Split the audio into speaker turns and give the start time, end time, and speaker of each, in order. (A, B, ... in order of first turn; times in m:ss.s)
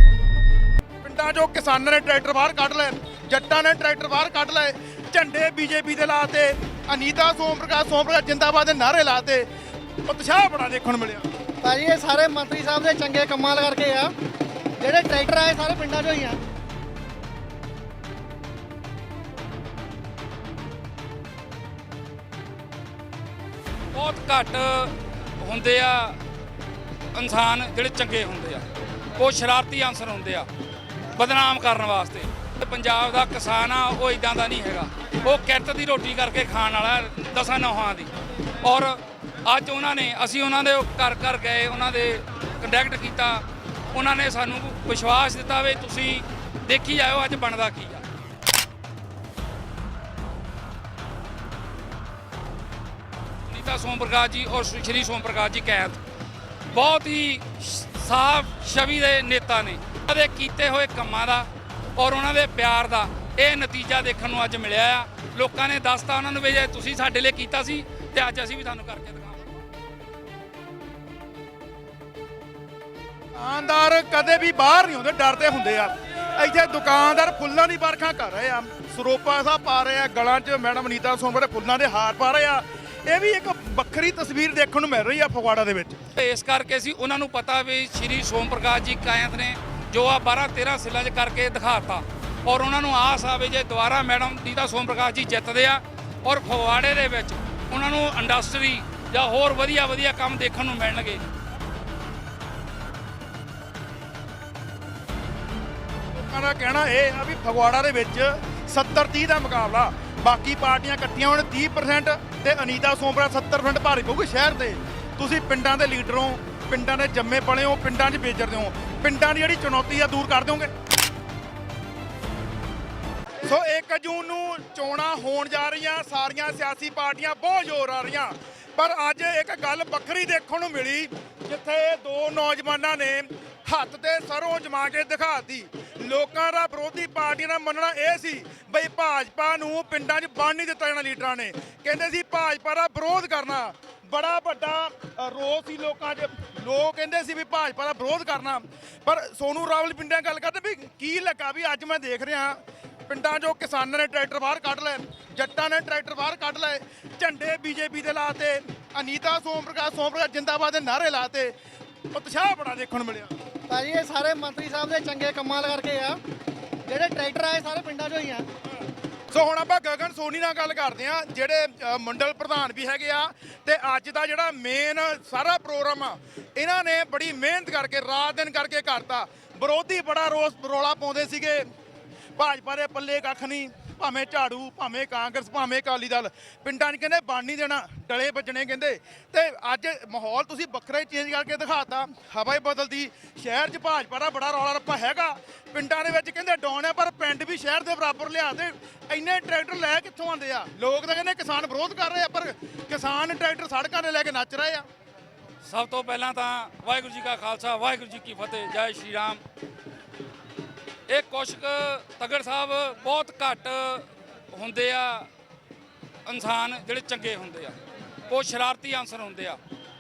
0:01.0-0:09.5 A
0:10.0-0:11.3 A
0:11.6-0:14.1 B
0:14.8-0:16.4 B
0:23.9-0:26.2 C
0:27.1-0:30.5 C
0:31.2-0:48.0 C
0:53.5-0:56.0 C
0:56.7-1:09.5 C
1:13.3-1:26.0 A
1:26.2-1:41.2 C
1:46.1-2:00.7 A
2:03.4-2:41.6 A
2:42.1-2:43.3 A
2:43.7-2:46.2 B
2:46.9-2:48.5 B
2:49.3-3:01.7 A
3:02.4-3:24.9 A
3:25.6-3:29.4 C
3:31.1-3:35.3 C
3:36.2-3:37.8 C
3:38.3-3:39.6 C